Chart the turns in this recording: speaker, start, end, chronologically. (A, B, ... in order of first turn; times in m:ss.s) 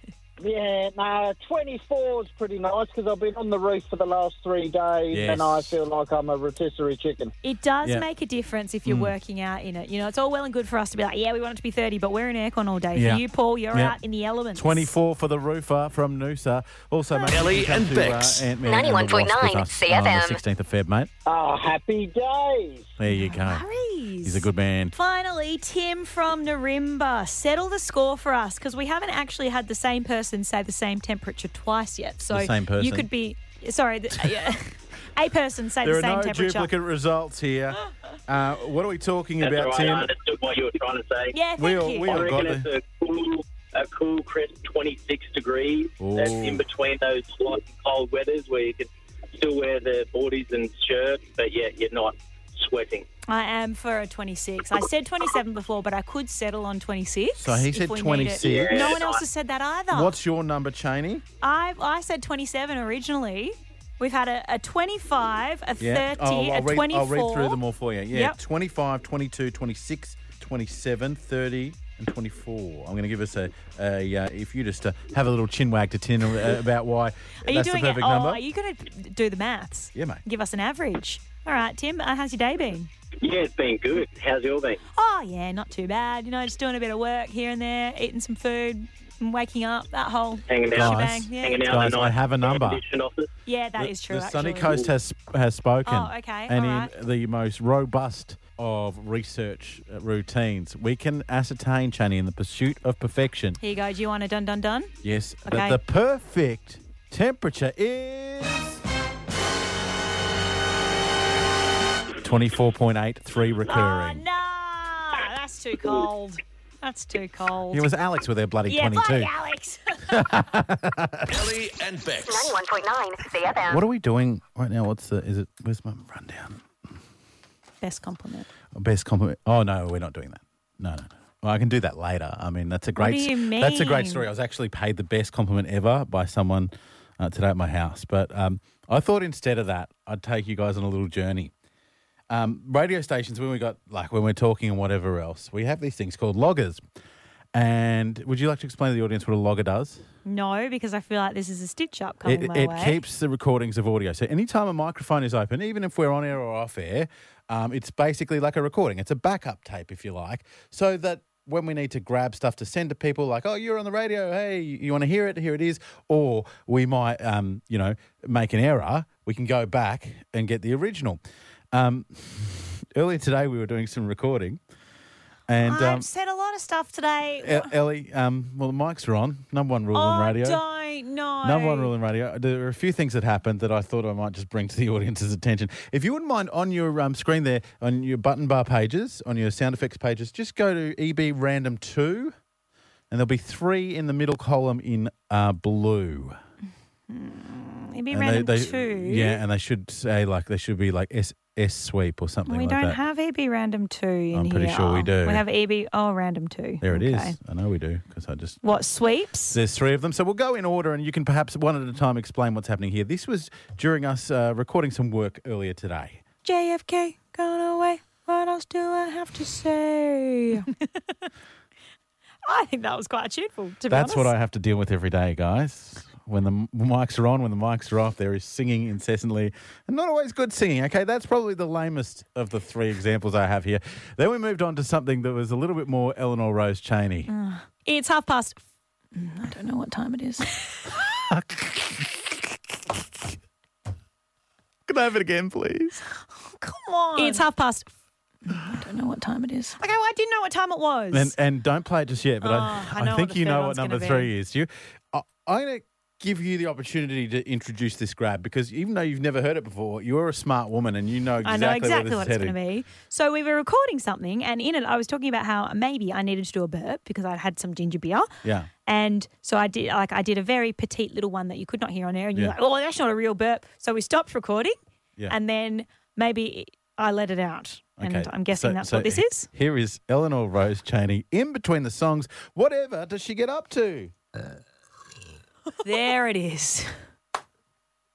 0:00.4-0:07.3 A
0:05.1-0:05.8 B
0:07.4-0:14.9 C
0:08.8-0:09.1 B
0:12.9-0:14.0 B
0:14.5-0:21.1 B
0:17.3-0:18.6 D
0:18.6-0:20.4 E
0:21.2-0:22.9 A
0:23.0-0:23.6 B
0:23.1-0:36.7 C
0:24.2-0:24.9 B
0:32.3-0:33.1 B
0:34.2-0:34.5 B
0:35.8-0:40.1 B
0:39.4-0:41.3 F
0:41.3-0:42.2 C
0:41.6-0:42.7 B
0:42.0-0:53.1 F
0:46.0-0:46.6 B
0:53.3-1:00.1 C
0:57.4-0:59.0 B
0:58.4-0:59.2 F
0:59.9-1:01.2 B
1:01.4-1:07.6 C
1:05.8-1:18.4 B
1:17.4-1:22.9 C
1:19.9-1:20.2 B
1:23.2-1:24.8 F
1:24.9-1:31.8 C
1:30.5-1:33.3 F
1:30.7-1:32.8 B
1:33.4-1:34.8 C
1:33.8-1:43.6 B
1:35.8-1:36.9 C
1:43.6-1:44.9 C
1:45.0-1:48.8 B
1:45.4-1:45.8 C
1:52.2-1:54.2 B
1:53.6-1:57.8 C
1:57.7-1:59.3 B
1:58.7-2:00.3 C
2:00.1-2:01.3 B
2:01.3-2:02.6 D
2:02.2-2:03.8 E
2:03.7-2:06.7 B
2:07.8-2:08.5 C
2:08.7-2:21.5 B
2:13.0-2:14.3 C
2:22.3-2:26.8 B
2:27.5-2:30.0 B
2:30.2-2:33.0 C
2:32.2-2:51.2 B
2:51.7-2:54.6 B
2:55.5-2:56.1 B
2:55.6-2:57.7 C
2:57.4-3:00.6 B
2:59.9-3:01.9 C
3:01.4-3:12.3 B
3:13.1-3:16.4 B
3:17.1-3:19.4 C
3:18.1-3:23.0 B
3:22.5-3:27.4 C
3:24.3-3:25.4 B
3:26.8-3:28.6 B
3:28.6-3:29.6 C
3:29.5-3:36.2 B
3:36.4-3:40.7 C
3:42.4-3:44.3 C
3:43.9-3:57.3 B
3:57.3-3:58.6 C
3:59.1-4:00.8 C
4:01.0-4:03.2 B
4:04.8-4:06.0 B
4:06.5-4:07.9 C
4:08.5-4:11.3 C
4:11.1-4:22.6 B
4:12.4-4:14.3 C
4:21.4-4:28.3 C
4:28.4-4:28.7 B
4:28.8-4:34.8 C
4:35.3-4:39.5 C
4:38.0-4:44.1 B
4:45.8-4:46.9 C